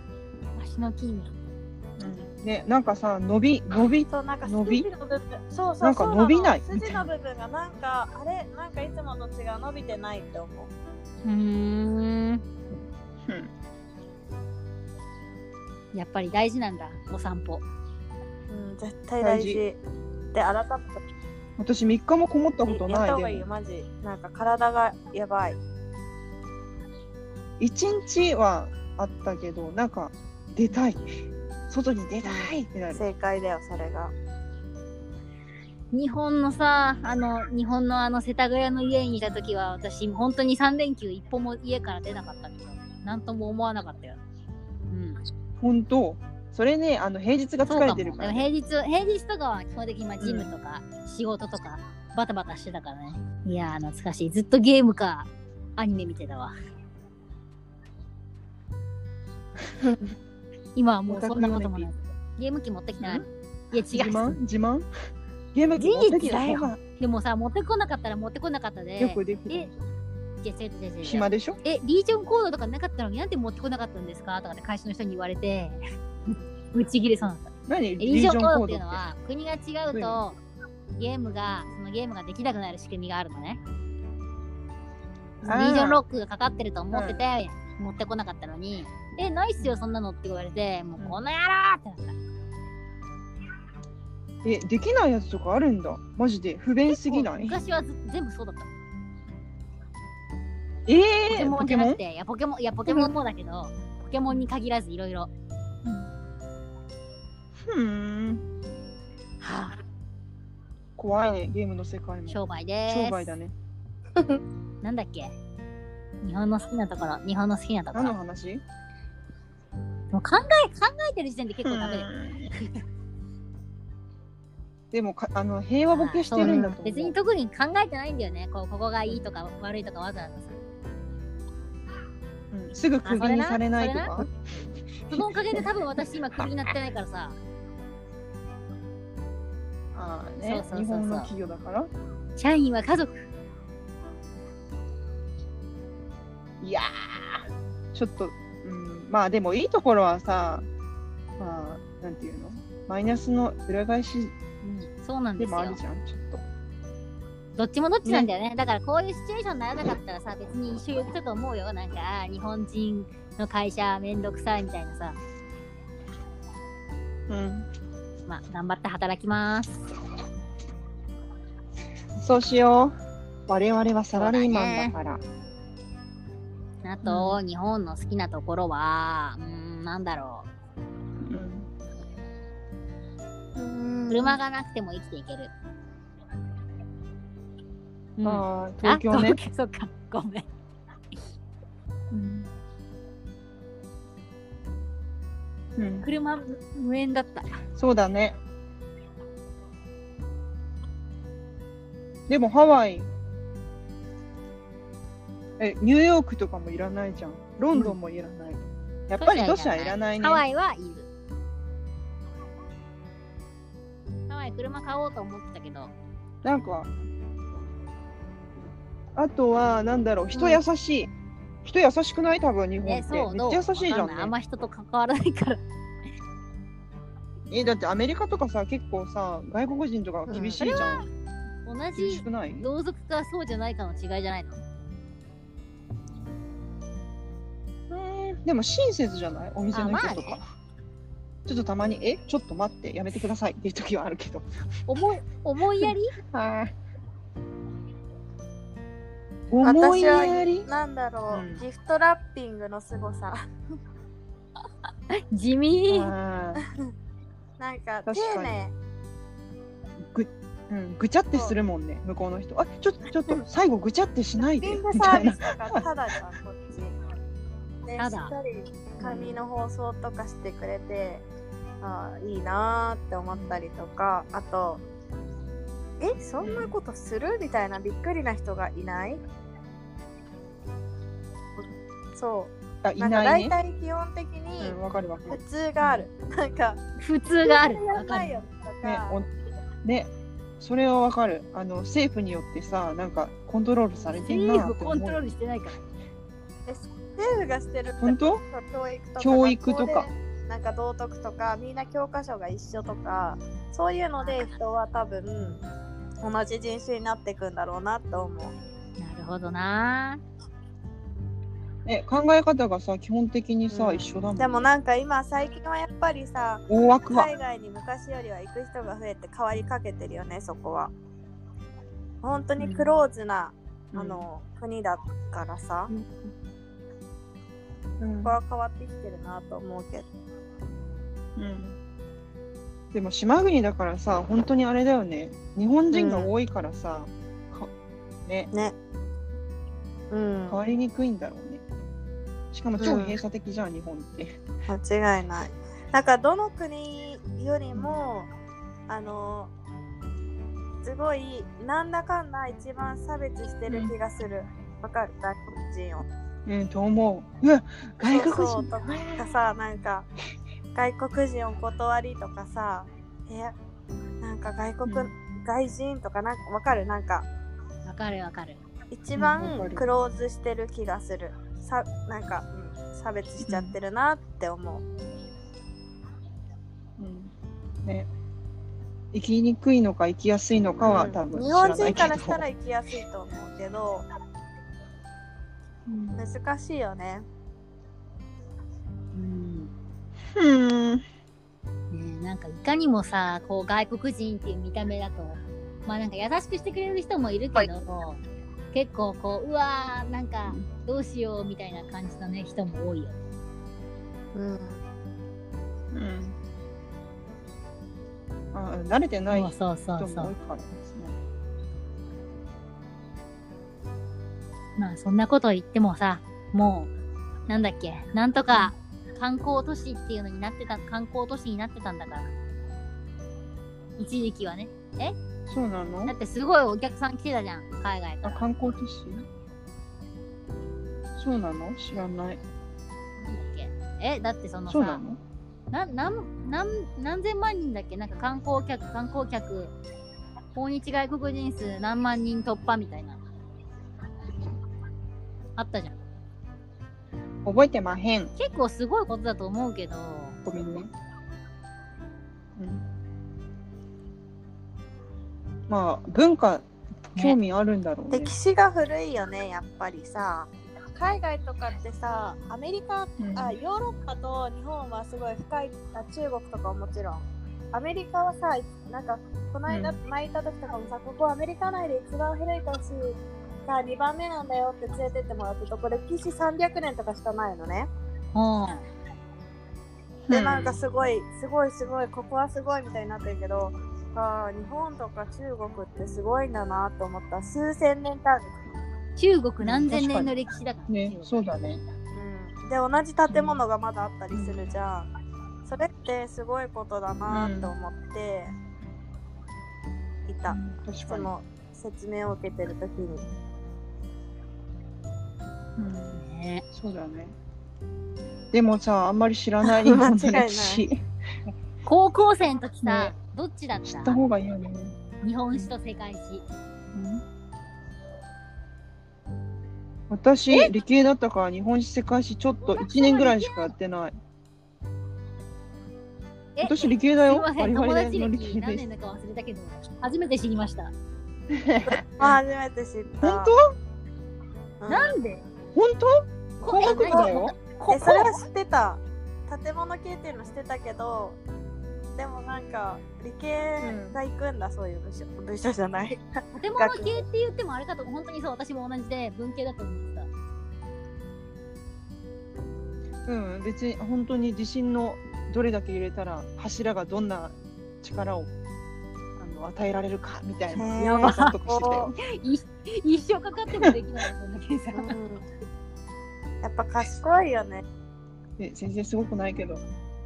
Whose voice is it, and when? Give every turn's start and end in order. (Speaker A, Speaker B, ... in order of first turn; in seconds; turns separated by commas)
Speaker A: 0.6-1.3, Speaker B: 2.0-4.9, Speaker C: 4.1-10.7, Speaker B: 5.8-7.1, Speaker A: 11.2-12.4, Speaker B: 13.3-13.5, Speaker A: 15.9-17.6, Speaker C: 18.5-19.8, Speaker B: 19.2-19.6, Speaker C: 20.3-21.0, Speaker B: 21.6-23.4, Speaker C: 22.7-25.6, Speaker B: 27.6-31.0, Speaker B: 31.7-33.0, Speaker C: 32.2-34.1, Speaker A: 35.9-44.2, Speaker A: 44.9-45.2, Speaker B: 45.6-48.5, Speaker A: 47.6-56.5, Speaker B: 50.2-50.5, Speaker B: 59.6-60.1, Speaker A: 60.8-64.4, Speaker B: 61.1-61.9, Speaker B: 63.0-63.3, Speaker B: 63.9-64.9, Speaker B: 65.5-66.8, Speaker A: 65.8-69.7, Speaker B: 69.0-69.7, Speaker A: 70.4-80.4, Speaker B: 71.0-71.6, Speaker B: 77.7-79.0, Speaker B: 79.9-80.2, Speaker A: 81.0-83.6, Speaker B: 85.4-86.0, Speaker A: 85.4-92.1, Speaker B: 86.9-87.2, Speaker B: 94.4-97.6, Speaker A: 96.9-98.7, Speaker B: 100.9-102.0, Speaker A: 101.3-105.3, Speaker B: 105.8-106.1, Speaker B: 107.6-108.4, Speaker A: 109.4-109.8, Speaker B: 111.0-113.5, Speaker A: 112.3-113.3, Speaker A: 114.8-115.3, Speaker A: 116.2-118.1, Speaker B: 117.9-118.6, Speaker A: 120.1-122.8, Speaker B: 121.6-122.5, Speaker B: 124.9-127.1, Speaker A: 125.9-130.5, Speaker C: 126.4-126.8, Speaker B: 132.5-134.3, Speaker A: 133.0-134.3, Speaker B: 135.1-135.7, Speaker A: 135.1-137.4, Speaker B: 139.9-141.9, Speaker A: 140.4-141.3, Speaker A: 142.4-143.2, Speaker B: 146.6-150.7, Speaker B: 151.4-154.3, Speaker A: 154.6-155.8, Speaker B: 155.4-156.4, Speaker A: 157.6-165.2, Speaker B: 167.3-167.7, Speaker A: 168.3-169.8, Speaker B: 172.2-172.9, Speaker B: 173.5-175.2, Speaker A: 174.1-174.9, Speaker A: 176.8-180.5, Speaker B: 177.0-177.4, Speaker B: 181.2-181.7, Speaker C: 183.6-184.4, Speaker A: 184.1-185.5, Speaker A: 188.2-190.5, Speaker B: 188.2-189.4, Speaker B: 192.1-192.5, Speaker B: 195.8-196.1, Speaker A: 196.0-197.6, Speaker B: 197.8-198.4, Speaker B: 202.3-203.1, Speaker B: 205.6-210.4, Speaker A: 209.2-211.1, Speaker A: 214.3-215.9, Speaker B: 216.4-216.9, Speaker B: 219.1-221.1, Speaker B: 221.6-224.3, Speaker A: 222.8-225.6, Speaker B: 227.5-231.1, Speaker C: 230.3-230.6, Speaker A: 230.6-231.1, Speaker A: 231.7-234.6, Speaker B: 231.9-232.7, Speaker B: 237.9-240.4, Speaker A: 239.7-240.4, Speaker B: 241.4-244.5, Speaker A: 244.9-246.1, Speaker B: 245.8-246.7, Speaker B: 249.5-250.7, Speaker C: 249.6-253.4, Speaker B: 251.3-251.6, Speaker A: 254.8-256.1, Speaker B: 255.9-256.6, Speaker C: 256.6-256.9, Speaker C: 257.6-258.7, Speaker B: 258.1-258.5, Speaker B: 260.0-265.9, Speaker C: 264.4-266.9, Speaker C: 267.9-271.2, Speaker A: 268.0-268.3, Speaker B: 269.0-269.4, Speaker C: 271.8-274.8, Speaker B: 273.3-273.6, Speaker C: 276.0-279.2, Speaker B: 276.4-276.8, Speaker C: 282.1-286.8, Speaker B: 282.8-283.6, Speaker B: 284.6-286.1, Speaker A: 287.0-288.4, Speaker C: 287.4-289.2, Speaker B: 288.8-289.3, Speaker B: 289.8-295.3, Speaker C: 293.9-294.2, Speaker A: 294.2-295.8, Speaker C: 296.7-305.6, Speaker B: 298.0-298.4, Speaker B: 299.2-300.1, Speaker A: 304.2-304.6, Speaker C: 306.2-308.5, Speaker A: 309.0-310.2, Speaker B: 311.9-314.7, Speaker C: 313.7-320.9, Speaker B: 316.7-317.3, Speaker C: 322.2-325.9, Speaker B: 322.6-322.9, Speaker B: 323.9-324.3, Speaker B: 328.0-328.4, Speaker C: 328.2-330.1, Speaker B: 331.4-331.8, Speaker B: 332.9-337.7, Speaker C: 335.9-336.3, Speaker C: 340.1-340.6, Speaker B: 340.5-341.6, Speaker B: 342.5-344.4, Speaker C: 342.8-343.2, Speaker C: 344.7-348.3, Speaker B: 347.7-348.0, Speaker C: 348.9-349.5, Speaker C: 350.8-356.1, Speaker B: 353.7-353.9, Speaker B: 356.4-359.4, Speaker C: 358.0-360.1, Speaker C: 360.7-363.6, Speaker C: 364.2-367.3, Speaker B: 364.9-365.1, Speaker A: 367.9-368.6, Speaker C: 368.9-374.8, Speaker B: 369.1-369.9, Speaker B: 373.4-373.8, Speaker B: 377.0-377.3, Speaker B: 379.1-382.4, Speaker C: 380.8-384.1, Speaker B: 385.9-386.2, Speaker C: 386.1-387.3, Speaker A: 389.1-389.7, Speaker B: 390.3-391.0, Speaker A: 391.9-398.2, Speaker A: 398.7-403.2, Speaker C: 404.4-404.8, Speaker B: 405.9-406.4, Speaker B: 408.5-411.1, Speaker A: 409.3-410.3, Speaker A: 414.8-416.9, Speaker A: 417.5-422.3, Speaker A: 424.0-425.2, Speaker B: 425.4-426.1, Speaker A: 426.1-428.5, Speaker B: 428.2-429.2, Speaker B: 431.2-432.4, Speaker A: 433.2-435.0, Speaker B: 434.7-435.2, Speaker A: 435.7-439.7, Speaker A: 440.6-443.2, Speaker A: 445.6-446.0, Speaker B: 447.4-448.3, Speaker A: 448.4-450.4, Speaker B: 450.4-450.9, Speaker B: 452.6-452.8, Speaker B: 455.7-458.3, Speaker C: 458.1-477.9, Speaker B: 463.2-463.6, Speaker B: 469.7-469.9, Speaker A: 478.3-478.9, Speaker B: 480.3-480.8, Speaker C: 480.3-488.5, Speaker A: 489.2-491.4, Speaker B: 489.6-490.4, Speaker B: 490.9-491.8, Speaker C: 492.1-495.1, Speaker B: 493.3-493.6, Speaker B: 494.3-494.7, Speaker C: 495.6-498.6, Speaker B: 497.3-497.7, Speaker C: 500.3-503.3, Speaker B: 500.5-501.3, Speaker B: 505.8-506.2, Speaker A: 506.1-506.6, Speaker B: 506.7-507.3, Speaker B: 508.5-511.0, Speaker C: 509.6-510.8, Speaker A: 511.9-514.2, Speaker B: 512.8-513.1, Speaker B: 513.9-515.0, Speaker A: 515.2-516.4, Speaker B: 516.9-517.2, Speaker B: 520.1-524.2, Speaker A: 522.6-523.7, Speaker A: 526.6-530.9, Speaker B: 526.6-528.8, Speaker B: 531.5-532.4, Speaker C: 531.9-533.5, Speaker B: 533.2-533.6, Speaker C: 534.8-535.2, Speaker A: 534.9-535.4, Speaker B: 535.8-538.3, Speaker A: 536.6-538.2, Speaker C: 536.8-541.4, Speaker C: 542.1-547.3, Speaker B: 543.8-544.2, Speaker A: 546.5-550.3, Speaker B: 553.3-558.5, Speaker B: 559.4-562.1, Speaker C: 560.7-562.1, Speaker A: 561.2-561.5, Speaker A: 562.2-565.2, Speaker C: 564.9-565.4, Speaker C: 566.6-567.8, Speaker B: 568.6-569.8